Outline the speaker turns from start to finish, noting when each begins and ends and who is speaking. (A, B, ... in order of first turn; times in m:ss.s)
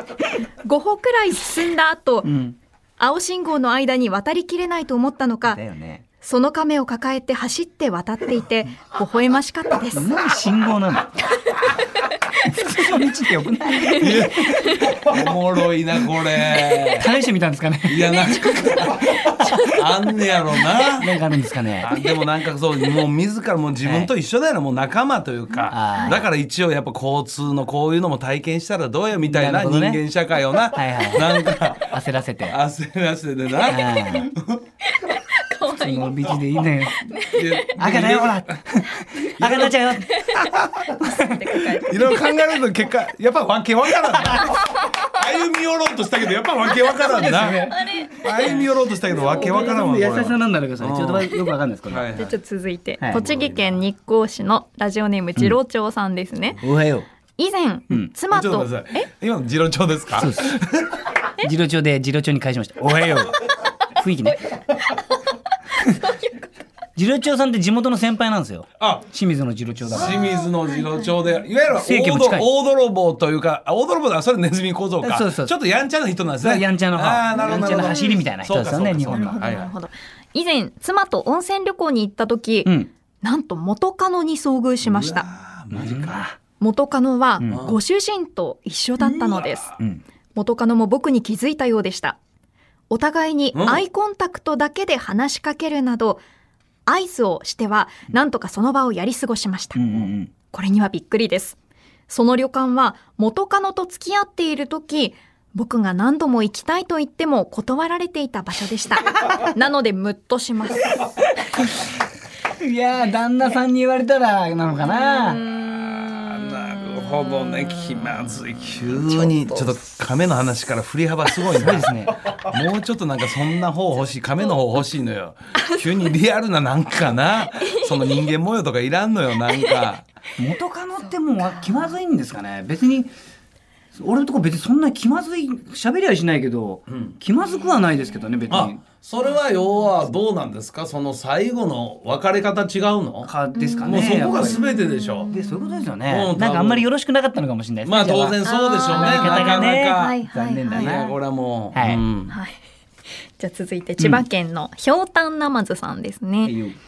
0:00.6-0:02.3 A
0:02.2-0:02.6 B
0:03.0-0:05.6 A
0:05.4-0:06.0 B
0:06.2-0:10.1 A
0:09.9-0:11.4 B
0:12.3-0:14.8 B
0:13.9-0:17.1 C
0:16.5-0:19.8 B
0:17.9-0:21.1 C
0:20.8-0:21.9 B
0:21.8-0:32.0 C
0:23.8-0:24.1 B
0:25.7-0:26.2 B
0:29.2-0:30.0 B
0:30.7-0:32.6 B
0:32.5-0:34.6 C
0:33.6-0:34.3 B
0:34.8-0:37.7 A
0:35.7-0:37.0 B
0:37.2-0:38.6 C
0:37.8-0:40.2 B
0:39.4-0:39.8 C
0:40.3-0:40.9 C
0:41.0-0:42.4 A
0:41.0-0:41.4 B
0:41.8-0:51.3 C
0:47.0-0:48.5 B
0:47.6-0:48.6 A
0:49.1-0:52.1 B
0:51.9-0:52.4 C
0:52.1-0:56.6 A
0:53.1-0:53.8 C
0:56.6-0:57.0 B
0:57.4-0:59.0 A
0:58.3-1:01.0 C
1:00.2-1:00.5 B
1:01.4-1:04.5 B
1:06.0-1:06.5 A
1:07.0-1:10.3 B
1:08.8-1:09.0 C
1:09.9-1:19.7 C
1:09.9-1:11.1 A
1:11.7-1:12.5 B
1:15.0-1:15.5 B
1:16.4-1:19.4 B
1:17.4-1:18.2 A
1:19.1-1:22.7 A
1:23.2-1:25.3 A
1:24.8-1:26.2 C
1:25.7-1:26.4 B
1:26.6-1:29.7 A
1:27.4-1:27.8 C
1:29.0-1:29.8 C
1:30.4-1:32.2 A
1:32.9-1:36.2 A
1:33.5-1:33.8 C
1:36.9-1:39.8 A
1:39.7-1:40.3 B
1:40.5-1:41.6 A
1:42.1-1:51.1 A
1:52.6-1:55.4 B
1:55.5-2:10.0 C
1:58.9-1:59.8 A
2:01.5-2:02.2 B
2:10.4-2:13.1 B
2:13.9-2:18.8 B
2:16.9-2:17.2 C
2:18.5-2:23.3 C
2:23.2-2:24.6 B
2:23.5-2:25.9 A
2:23.8-2:25.3 C
2:25.3-2:31.2 B
2:26.1-2:26.9 C
2:27.8-2:32.4 C
2:28.4-2:31.0 A
2:31.7-2:32.0 B
2:32.3-2:32.5 A
2:33.4-2:36.6 A
2:34.0-2:34.2 B
2:36.4-2:36.7 B